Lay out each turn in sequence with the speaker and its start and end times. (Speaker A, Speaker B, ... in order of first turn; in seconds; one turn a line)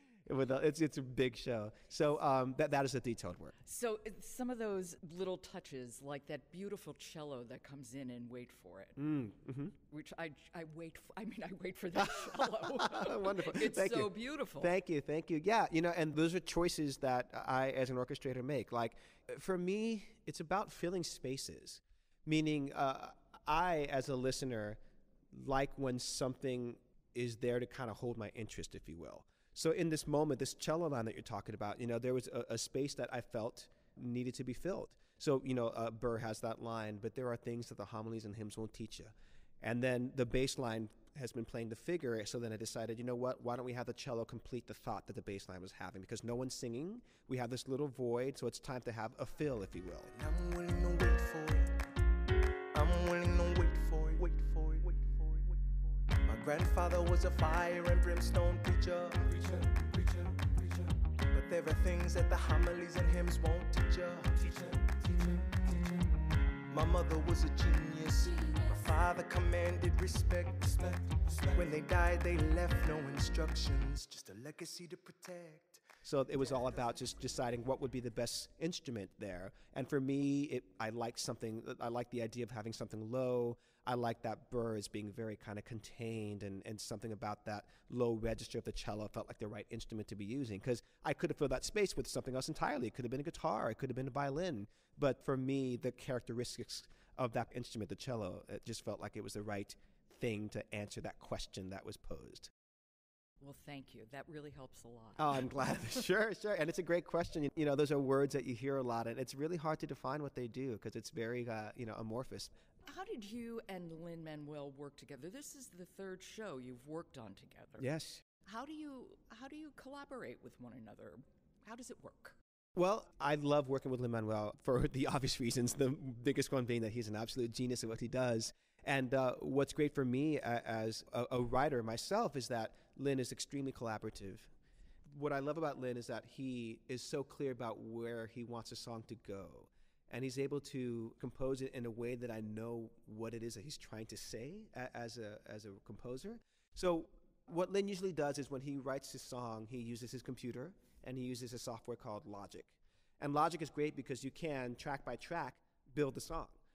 Speaker A: 0.3-3.5
Speaker B: 3.7-9.0
Speaker A: 9.0-9.7
Speaker B: 9.9-14.7
Speaker A: 11.9-24.8
Speaker A: 25.3-50.1
Speaker C: 50.1-51.8
Speaker C: 52.7-60.8
Speaker C: 61.3-66.1
Speaker C: 66.7-75.9
Speaker A: 76.0-102.5
Speaker B: 103.4-105.4
Speaker A: 105.2-112.5
Speaker B: 112.9-117.9
Speaker A: 117.8-118.2
Speaker B: 118.5-122.4
Speaker A: 122.8-134.5
Speaker A: 135.1-156.6